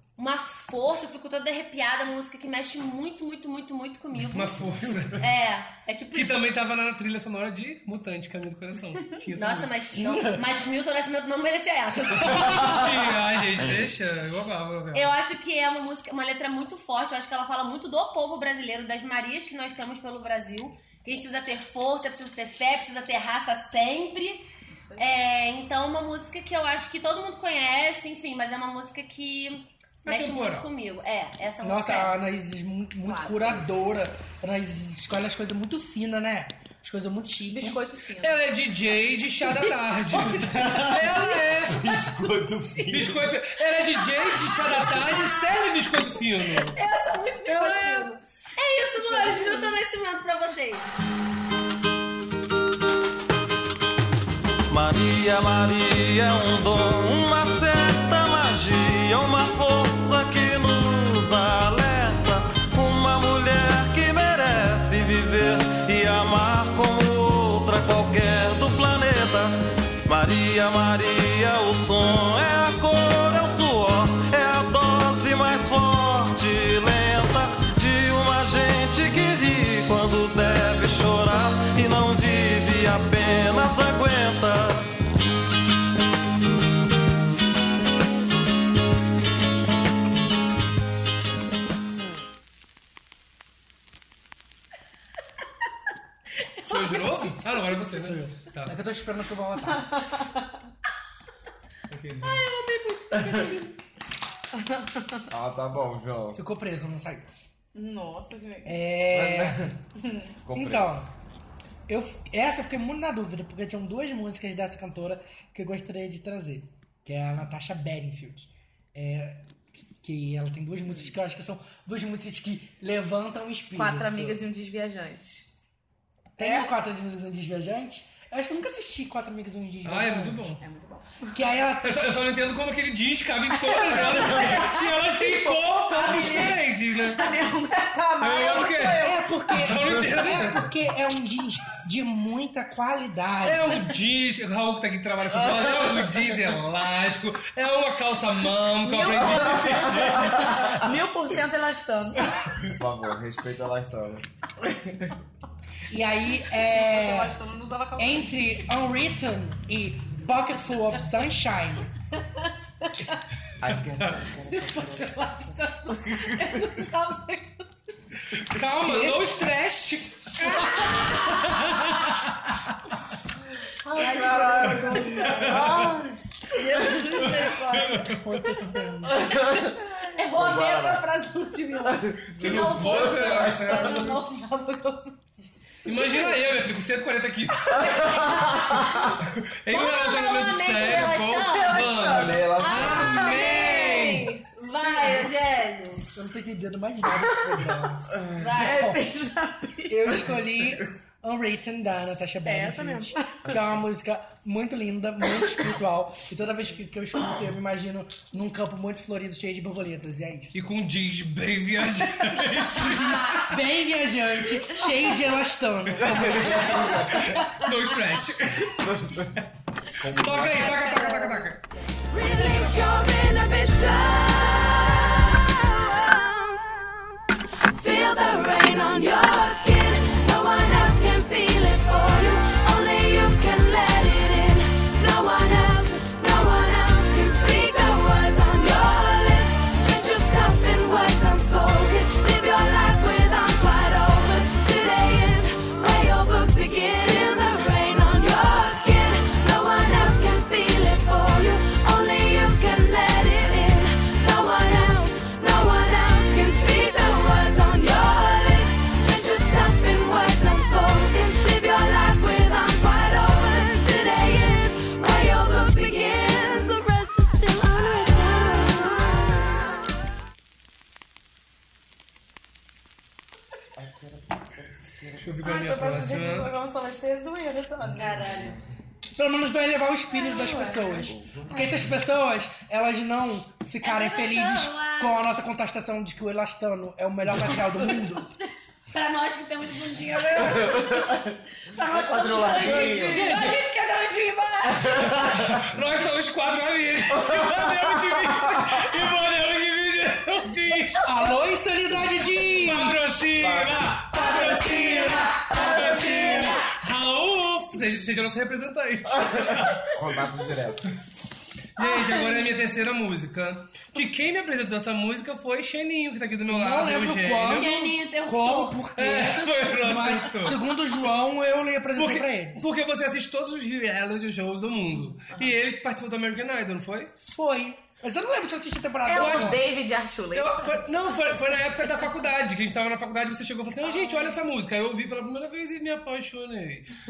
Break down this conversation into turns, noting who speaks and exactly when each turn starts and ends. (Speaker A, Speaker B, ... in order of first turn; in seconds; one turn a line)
Speaker A: 0.2-6.4
Speaker B: 4.3-5.2
Speaker B: 6.1-9.9
Speaker A: 9.3-12.8
Speaker C: 9.9-10.4
Speaker B: 12.3-15.1
Speaker A: 14.9-24.5
Speaker D: 24.7-25.2
Speaker A: 25.0-32.1
Speaker B: 30.0-30.7
Speaker C: 31.6-37.8
Speaker D: 33.0-34.0
Speaker D: 37.4-38.5
Speaker B: 38.2-41.8
Speaker A: 40.5-41.6
Speaker D: 40.7-41.4
Speaker E: 42.3-43.1
Speaker B: 42.9-46.8
Speaker A: 44.9-45.3
Speaker A: 46.7-50.9
Speaker B: 47.5-48.0
Speaker D: 49.0-49.7
Speaker F: 54.7-84.9
Speaker B: 96.6-98.7
Speaker C: 97.9-99.9
Speaker D: 99.7-100.3
Speaker B: 101.9-102.4
Speaker A: 102.2-103.7
Speaker D: 104.8-105.2
Speaker E: 105.3-106.4
Speaker C: 106.3-107.2
Speaker D: 107.7-109.0
Speaker C: 108.6-109.6
Speaker E: 109.1-109.5
Speaker D: 110.0-110.3
Speaker E: 110.4-111.0
Speaker C: 110.5-111.1
Speaker C: 111.9-124.4
Speaker D: 123.7-125.5
Speaker D: 126.4-126.7
Speaker C: 126.4-130.6
Speaker B: 129.8-130.6
Speaker D: 130.6-131.4
Speaker C: 131.3-132.2
Speaker B: 131.8-137.3
Speaker D: 133.7-139.2
Speaker C: 133.7-134.7
Speaker C: 136.0-136.4
Speaker B: 138.2-140.7
Speaker C: 139.0-143.9
Speaker B: 143.4-150.8
Speaker D: 148.8-152.3
Speaker E: 152.6-154.2
Speaker C: 155.9-157.3
Speaker D: 156.6-158.6
Speaker C: 158.0-161.9
Speaker A: 162.4-163.2
Speaker E: 163.6-165.2
Speaker B: 164.0-164.3
Speaker A: 164.4-167.6
Speaker B: 168.3-172.5
Speaker C: 168.6-169.3
Speaker A: 170.5-171.4
Speaker E: 173.9-176.2
Speaker A: 173.9-175.9
Speaker B: 175.2-175.9
Speaker A: 176.5-178.1
Speaker B: 177.5-178.3
Speaker C: 178.1-179.3
Speaker A: 179.1-185.2
Speaker E: 179.3-179.6
Speaker E: 180.3-181.0
Speaker E: 182.0-183.8
Speaker B: 182.3-184.2
Speaker B: 185.8-188.2
Speaker A: 187.7-189.1
Speaker B: 189.3-194.4
Speaker A: 189.7-191.9
Speaker D: 191.5-193.2
Speaker E: 192.1-193.8
Speaker A: 192.6-196.1
Speaker D: 194.9-195.2
Speaker C: 196.1-199.1
Speaker A: 198.4-198.8
Speaker D: 198.6-200.2
Speaker C: 199.9-210.6
Speaker D: 202.4-203.3
Speaker B: 210.5-213.5
Speaker A: 213.0-213.4
Speaker C: 213.3-216.9
Speaker B: 216.0-218.9
Speaker E: 216.3-216.7
Speaker E: 218.8-219.3
Speaker E: 220.0-221.0
Speaker B: 220.0-221.6
Speaker A: 220.9-221.2
Speaker G: 222.1-226.6
Speaker G: 227.7-269.3
Speaker E: 273.8-274.1
Speaker E: 274.8-275.4
Speaker B: 275.2-276.5
Speaker D: 275.4-278.1
Speaker A: 277.9-278.5
Speaker C: 279.1-288.3
Speaker D: 280.1-281.8
Speaker E: 281.2-281.7
Speaker A: 283.8-285.2
Speaker A: 288.9-291.2
Speaker E: 290.4-291.2
Speaker A: 291.7-295.3
Speaker E: 291.8-293.3
Speaker B: 292.6-293.5
Speaker E: 295.0-295.6
Speaker B: 295.2-301.0
Speaker C: 301.0-303.2
Speaker B: 302.6-310.0
Speaker E: 303.3-304.1
Speaker C: 304.2-306.6
Speaker E: 309.9-310.8
Speaker B: 311.8-317.7
Speaker C: 316.5-322.6
Speaker A: 317.5-318.8
Speaker B: 318.9-320.6
Speaker B: 321.9-327.1
Speaker C: 327.2-329.6
Speaker D: 329.1-330.9
Speaker B: 329.1-329.6
Speaker B: 330.3-336.9
Speaker D: 333.9-334.4